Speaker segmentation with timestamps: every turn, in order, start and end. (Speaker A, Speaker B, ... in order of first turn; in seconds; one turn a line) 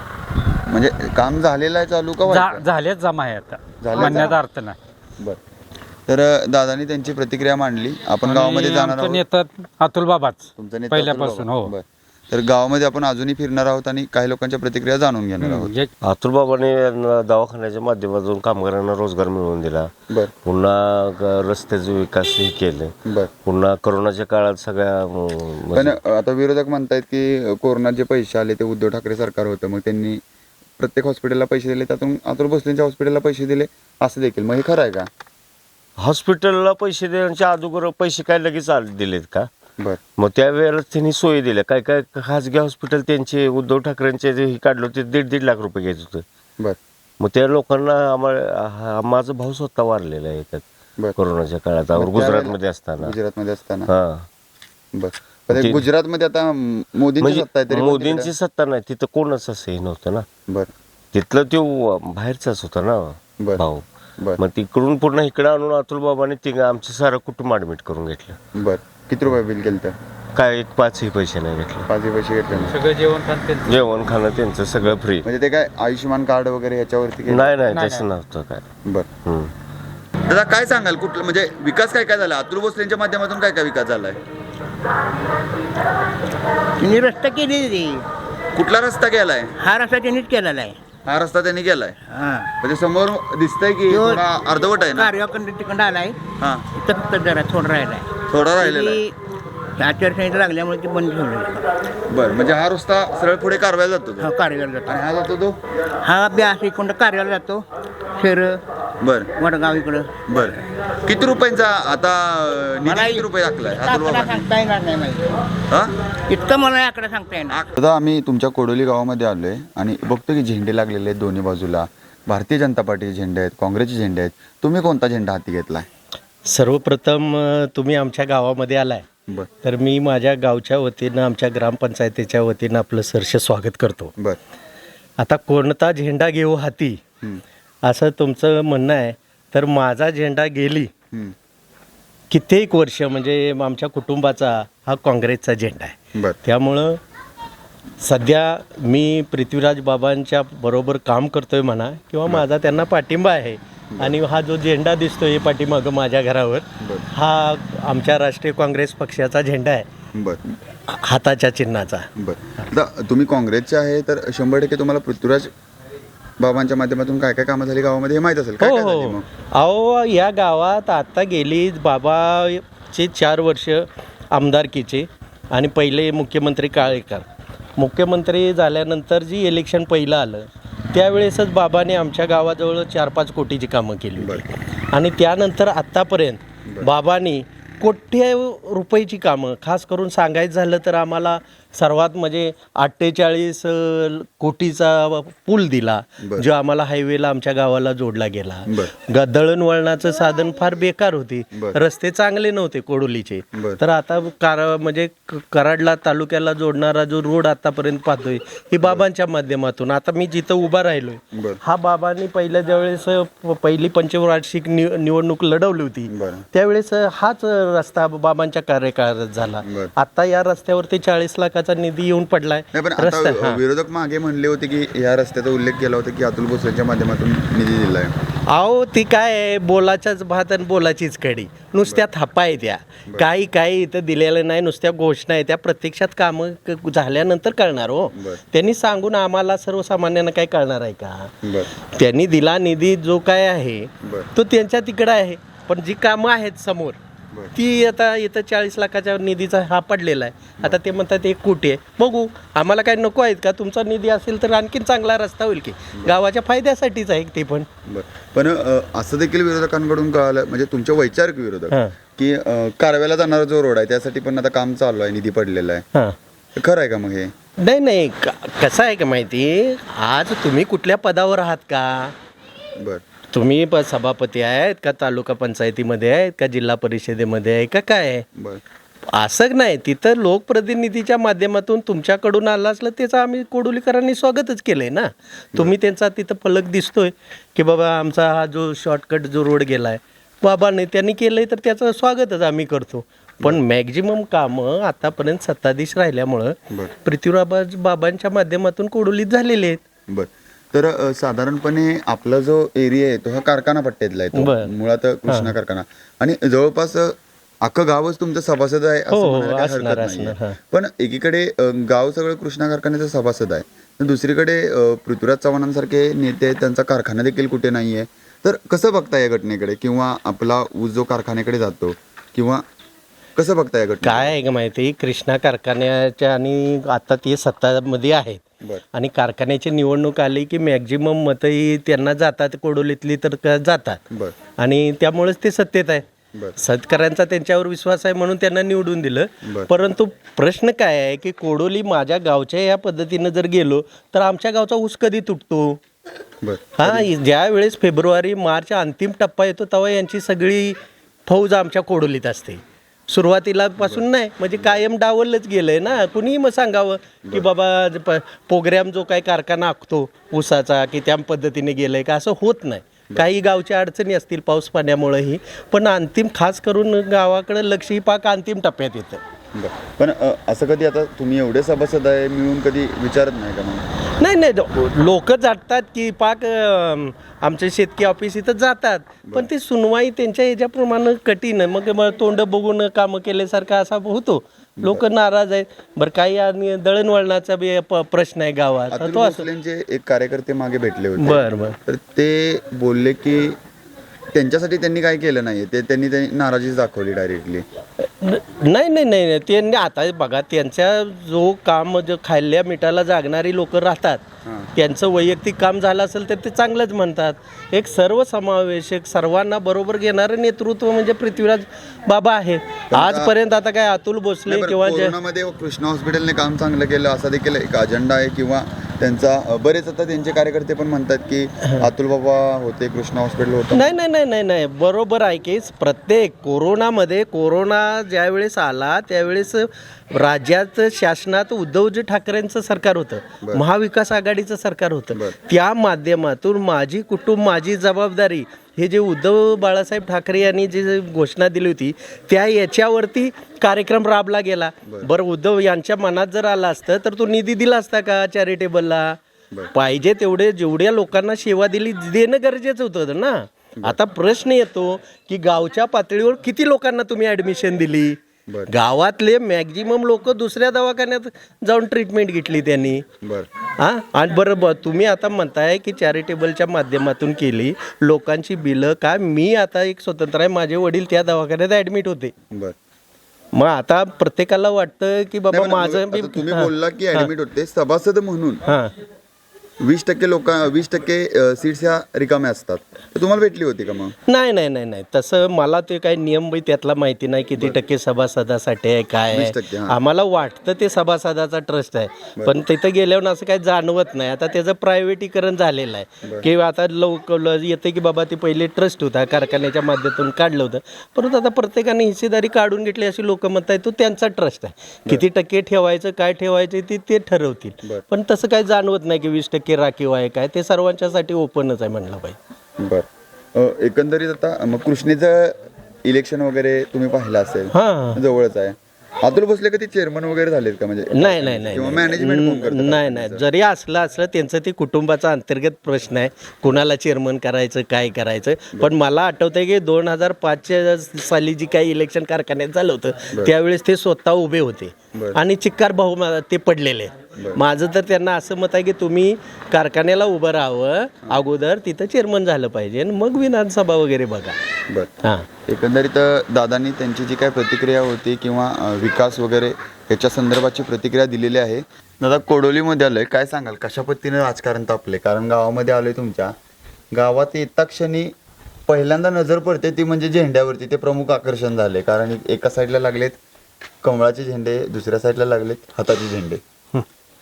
Speaker A: 0.7-2.7
Speaker B: 2.3-4.8
Speaker A: 3.8-4.4
Speaker A: 6.1-9.2
Speaker B: 8.2-11.7
Speaker A: 10.6-15.7
Speaker B: 15.4-15.9
Speaker C: 16.0-19.9
Speaker C: 20.4-22.9
Speaker A: 23.1-23.3
Speaker C: 23.4-26.0
Speaker A: 25.7-30.2
Speaker A: 30.8-35.1
Speaker C: 36.0-39.5
Speaker C: 40.2-46.2
Speaker C: 47.2-50.6
Speaker C: 51.2-53.1
Speaker A: 52.0-53.9
Speaker C: 53.9-54.3
Speaker A: 54.9-58.3
Speaker C: 55.5-55.8
Speaker C: 57.2-60.3
Speaker C: 61.1-63.9
Speaker C: 64.4-68.4
Speaker A: 68.5-70.0
Speaker C: 70.3-71.9
Speaker A: 71.9-72.8
Speaker B: 72.6-73.8
Speaker C: 73.7-75.3
Speaker A: 75.2-77.7
Speaker C: 77.3-78.6
Speaker B: 77.7-78.0
Speaker C: 79.2-79.5
Speaker A: 80.3-84.2
Speaker D: 86.8-88.0
Speaker A: 88.5-89.5
Speaker D: 89.6-90.8
Speaker A: 91.1-92.0
Speaker D: 92.1-92.5
Speaker A: 92.6-95.1
Speaker D: 93.9-94.2
Speaker D: 95.0-96.2
Speaker A: 96.4-96.7
Speaker D: 96.7-99.1
Speaker A: 98.3-99.0
Speaker D: 99.8-101.6
Speaker A: 102.1-104.3
Speaker D: 104.2-105.0
Speaker A: 104.9-105.6
Speaker D: 106.0-107.6
Speaker D: 108.2-108.6
Speaker A: 109.0-109.3
Speaker D: 109.3-110.2
Speaker A: 110.3-114.5
Speaker D: 112.8-115.4
Speaker A: 115.7-115.9
Speaker D: 116.3-117.6
Speaker A: 117.5-125.9
Speaker E: 126.5-129.1
Speaker E: 129.6-134.1
Speaker E: 135.2-137.0
Speaker E: 137.8-140.9
Speaker E: 142.3-147.0
Speaker E: 148.0-159.9
Speaker A: 160.1-160.4
Speaker E: 160.9-162.1
Speaker A: 162.2-165.5
Speaker A: 166.4-169.3
Speaker E: 168.6-177.3
Speaker E: 177.8-223.6
Speaker A: 184.2-184.4
Speaker A: 196.2-196.5
Speaker A: 203.5-203.8
Speaker A: 211.3-211.6
Speaker A: 216.1-216.5
Speaker A: 219.6-219.9
Speaker A: 222.7-228.1
Speaker E: 228.5-241.3
Speaker A: 238.1-238.4
Speaker A: 241.4-241.7
Speaker E: 241.9-247.0
Speaker A: 244.0-244.3
Speaker E: 247.6-257.7
Speaker A: 257.9-265.9
Speaker A: 266.6-267.3
Speaker E: 267.6-272.1
Speaker A: 272.8-273.0
Speaker E: 273.3-278.3
Speaker A: 278.4-278.6
Speaker E: 279.1-299.8
Speaker A: 300.1-322.6
Speaker E: 304.4-304.7
Speaker E: 305.3-305.5
Speaker E: 309.1-310.6
Speaker A: 323.4-324.4
Speaker E: 324.1-328.4
Speaker E: 328.9-334.0
Speaker A: 334.1-334.4
Speaker E: 334.6-336.0
Speaker E: 336.6-345.8
Speaker A: 339.4-339.7
Speaker A: 346.4-347.1
Speaker E: 346.8-369.2
Speaker A: 369.6-373.9
Speaker E: 374.2-389.4
Speaker A: 388.9-393.6
Speaker E: 391.2-391.8
Speaker A: 394.3-397.6
Speaker E: 398.0-404.2
Speaker E: 404.8-415.1
Speaker A: 412.9-413.3
Speaker A: 414.5-423.9
Speaker E: 423.7-449.2
Speaker E: 449.7-458.2
Speaker E: 458.7-463.0
Speaker A: 463.2-463.5
Speaker E: 463.8-472.3
Speaker E: 473.6-477.3
Speaker A: 475.5-478.6
Speaker E: 478.7-478.9
Speaker A: 479.8-484.1
Speaker E: 484.3-512.4
Speaker A: 489.3-490.0
Speaker A: 512.8-523.4
Speaker E: 517.7-518.2
Speaker E: 521.1-544.6
Speaker A: 544.9-545.2
Speaker A: 545.7-556.5
Speaker A: 557.1-558.3
Speaker A: 558.9-563.4
Speaker A: 564.0-566.6